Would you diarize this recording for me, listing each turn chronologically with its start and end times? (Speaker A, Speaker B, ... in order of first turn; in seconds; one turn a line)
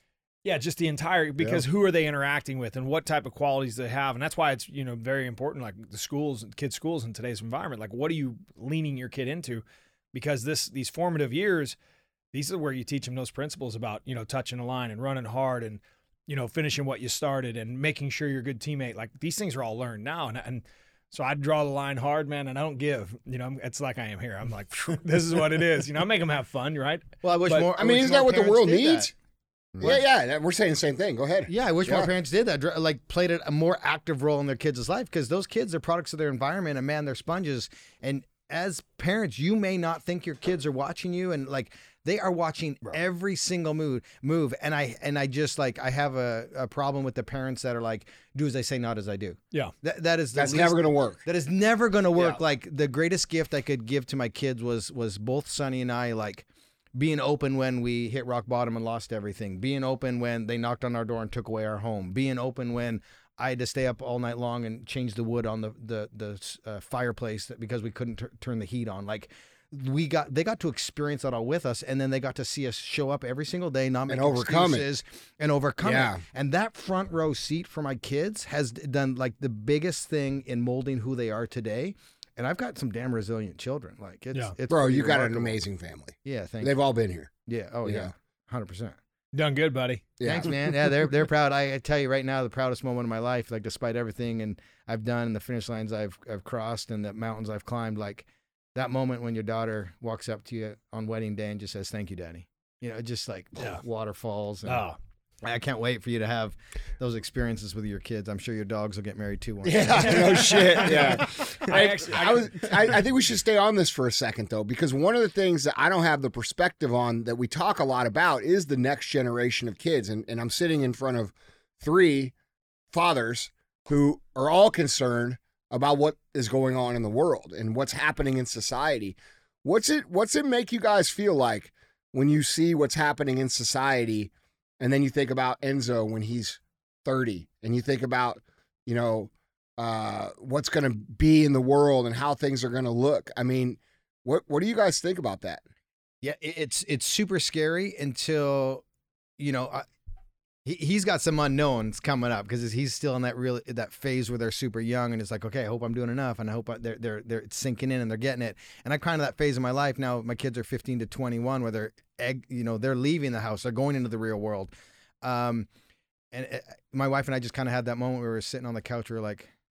Speaker A: 0.4-11.8
Speaker A: 12.3-27.7
Speaker B: 27.2-29.1
Speaker C: 27.7-29.1
Speaker C: 29.8-32.1
Speaker B: 31.5-85.6
Speaker C: 50.4-51.2
Speaker C: 74.1-74.9
Speaker C: 75.8-76.2
Speaker C: 84.7-87.3
Speaker B: 86.2-86.7
Speaker B: 87.5-89.0
Speaker C: 87.8-88.1
Speaker A: 89.3-90.1
Speaker C: 90.2-90.5
Speaker B: 90.2-104.9
Speaker A: 103.6-103.8
Speaker A: 104.7-105.0
Speaker B: 105.4-111.8
Speaker C: 109.6-122.3
Speaker A: 110.2-112.8
Speaker C: 122.9-145.6
Speaker B: 146.2-148.8
Speaker B: 149.4-149.9
Speaker B: 150.6-165.7
Speaker B: 166.3-169.5